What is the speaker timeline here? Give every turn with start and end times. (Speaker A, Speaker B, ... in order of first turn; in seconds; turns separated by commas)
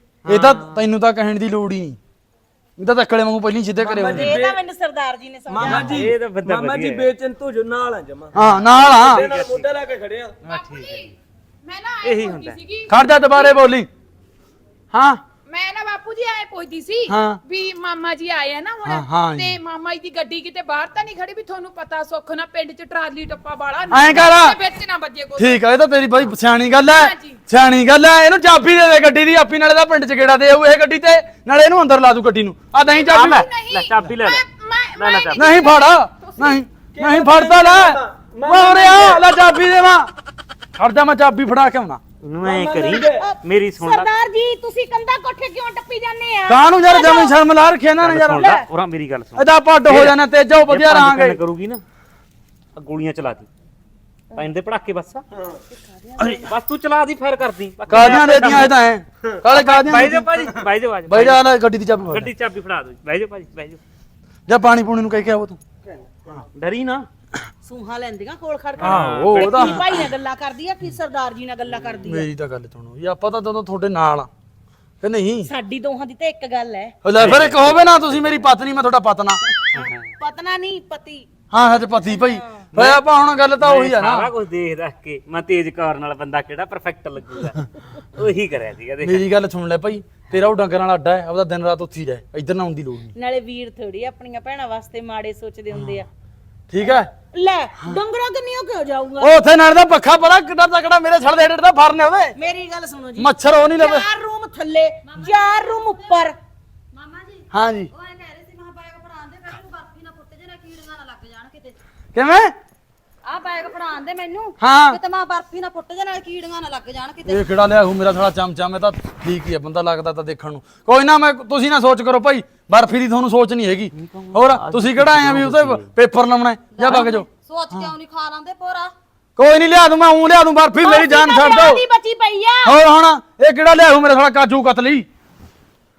Speaker A: 0.2-0.8, Speaker B: 0.3-2.0, Speaker B: 2.8-4.4, Speaker C: 3.8-4.6, Speaker D: 4.0-6.0, Speaker C: 5.5-10.3, Speaker A: 5.6-7.1, Speaker B: 8.3-9.2, Speaker A: 8.4-9.7, Speaker A: 10.4-11.1, Speaker E: 10.5-13.6, Speaker A: 12.0-12.6, Speaker B: 12.9-13.9, Speaker B: 14.9-15.2, Speaker E: 15.5-25.6, Speaker B: 17.1-17.4, Speaker B: 18.8-19.6, Speaker B: 23.9-24.6, Speaker B: 25.4-33.5, Speaker E: 26.8-27.4, Speaker E: 32.9-36.6, Speaker A: 33.1-35.5, Speaker B: 35.4-40.1, Speaker C: 36.9-39.3, Speaker B: 40.8-42.0, Speaker A: 42.2-44.1, Speaker C: 42.4-43.2, Speaker D: 42.9-47.4, Speaker B: 46.5-48.5, Speaker A: 48.0-51.8, Speaker D: 48.3-48.6, Speaker B: 49.4-51.4, Speaker A: 52.7-53.5, Speaker A: 54.3-55.2, Speaker D: 55.7-56.5, Speaker B: 56.2-56.4, Speaker A: 56.5-58.8, Speaker B: 57.9-60.5, Speaker A: 59.5-61.4, Speaker B: 61.1-62.3, Speaker A: 62.1-63.8, Speaker B: 64.5-65.6, Speaker A: 66.5-67.1, Speaker D: 67.6-72.3, Speaker A: 68.8-70.0, Speaker B: 68.8-69.8, Speaker A: 71.7-72.0, Speaker B: 72.0-74.3, Speaker B: 75.0-75.5, Speaker D: 75.5-76.9, Speaker B: 77.0-79.4, Speaker A: 77.1-78.5, Speaker D: 79.5-81.2, Speaker A: 79.7-80.1, Speaker B: 81.5-84.3, Speaker D: 82.0-82.7, Speaker A: 82.7-83.0, Speaker A: 83.6-89.2, Speaker B: 89.0-93.1, Speaker D: 93.2-96.1, Speaker B: 95.7-96.0, Speaker B: 96.7-97.1, Speaker D: 96.8-99.3, Speaker B: 99.2-102.3, Speaker D: 102.3-106.3, Speaker B: 103.2-104.1, Speaker F: 105.1-106.2, Speaker F: 106.9-111.8, Speaker B: 107.5-107.9, Speaker B: 112.1-112.5, Speaker F: 113.2-117.4, Speaker B: 114.6-115.0, Speaker B: 117.3-127.9, Speaker A: 123.9-125.9, Speaker F: 126.8-128.9, Speaker B: 129.4-131.8, Speaker D: 130.8-132.8, Speaker B: 132.6-135.1